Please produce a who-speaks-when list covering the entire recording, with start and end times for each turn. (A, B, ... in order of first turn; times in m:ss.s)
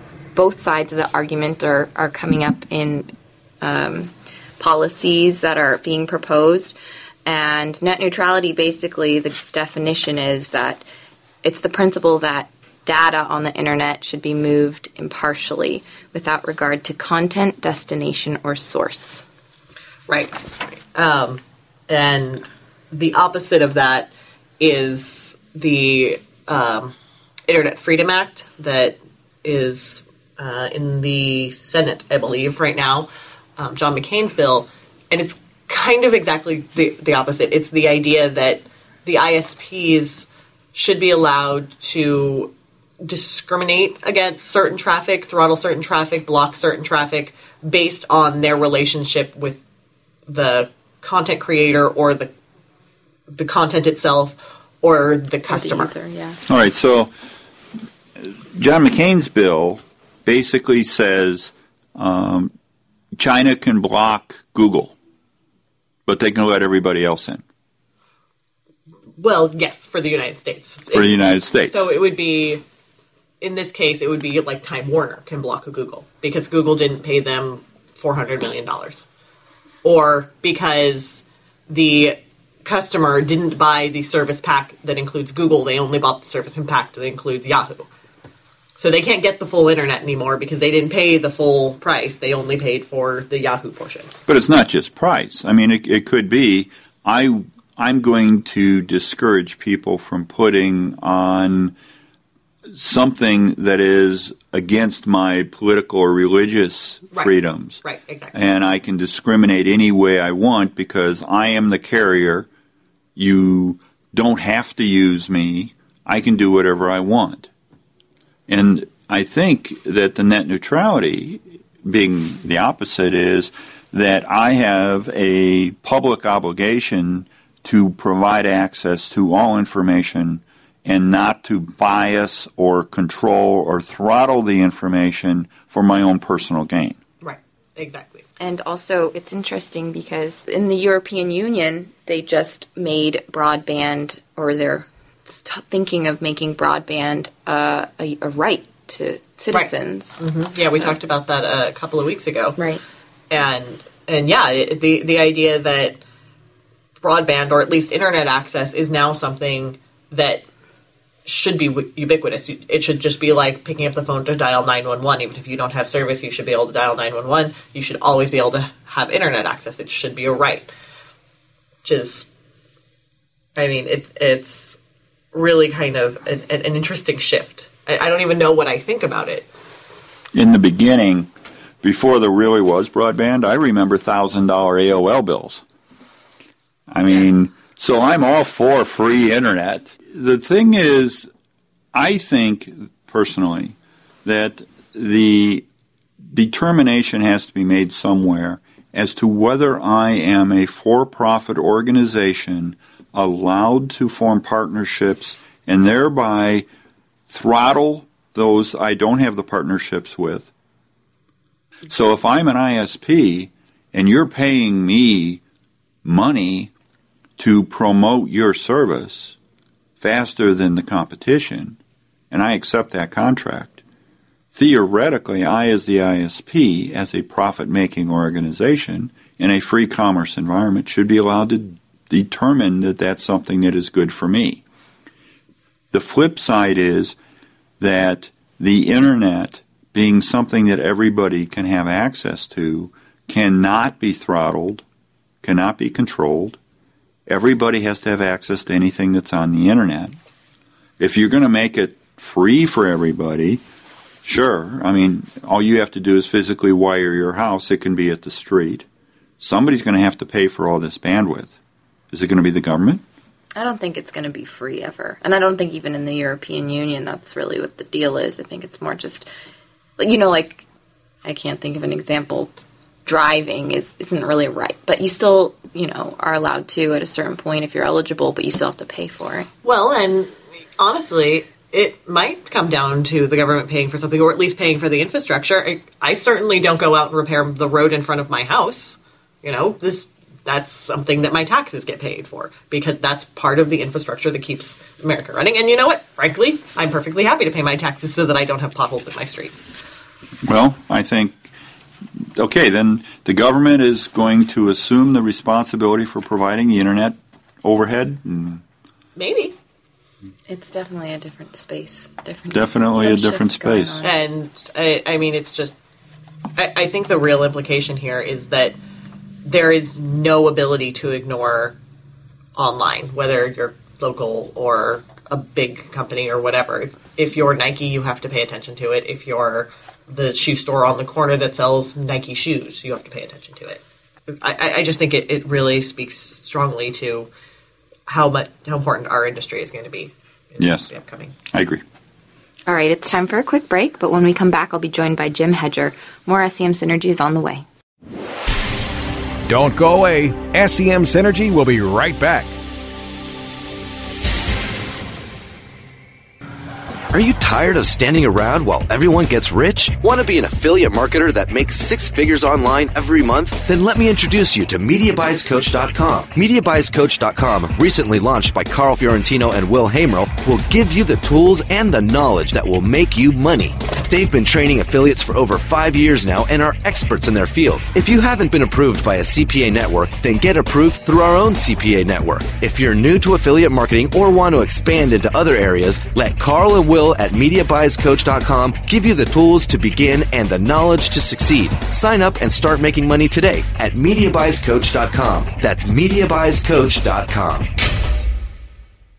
0:00.3-0:06.7 A
0:07.2-0:10.8 A
0:11.4-0:19.2 A
0:20.1-0:20.4 B
0:20.9-0:26.9 B
0:27.5-0:49.6 B
0:50.3-0:52.3 B
0:53.3-0:55.9 B
0:55.5-0:56.4 A
0:56.5-0:57.1 C
0:58.2-1:02.5 C
1:03.2-1:04.9 C
1:06.1-1:07.4 C
1:09.2-1:12.6 B
1:10.9-1:11.9 C
1:13.4-1:19.0 B
1:19.8-1:27.9 B
1:28.8-1:34.1 B
1:34.3-1:41.7 C
1:42.7-1:47.8 C
1:47.1-1:48.3 B
1:48.3-1:52.5 C
1:53.2-1:57.5 C
1:58.5-2:17.0 C
2:17.2-2:18.2 B
2:18.4-2:30.9 A
2:29.5-2:32.6 B
2:32.6-2:32.8 A
2:33.3-2:36.0 B
2:37.0-2:40.4 B
2:41.2-2:50.7 B
2:51.8-2:52.2 B
2:53.6-2:54.8 B
2:55.3-2:59.5 B
3:00.3-3:01.3 C
3:01.8-3:05.6 C
3:06.9-3:11.3 C
3:11.9-3:15.6 C
3:16.3-3:26.6 C
3:27.3-3:30.5 C
3:31.9-3:35.4 C
3:36.0-3:36.7 C
3:37.4-3:39.3 C
3:40.0-3:41.8 C
3:42.3-3:43.8 C
3:44.5-3:54.6 C
3:55.9-3:57.2 C
3:57.8-4:04.8 C
4:05.4-4:06.6 C
4:07.3-4:10.2 C
4:11.0-4:13.6 C
4:14.2-4:18.8 C
4:19.4-4:21.5 C
4:22.1-4:23.0 C
4:23.6-4:29.3 A
4:30.0-4:30.6 A
4:31.2-4:32.5 A
4:33.0-4:39.5 A
4:39.6-4:59.5 B
5:00.4-5:01.5 C
5:02.4-5:08.6 C
5:09.2-5:09.5 B
5:10.5-5:14.2 A
5:12.5-5:14.0 C
5:14.0-5:15.7 B
5:16.6-5:18.7 B
5:19.4-5:21.8 B
5:22.6-5:37.3 B
5:38.1-5:41.3 B
5:40.6-5:40.9 C
5:41.5-5:41.8 C
5:42.7-5:47.6 A
5:49.4-5:52.5 D
5:57.1-6:37.7 E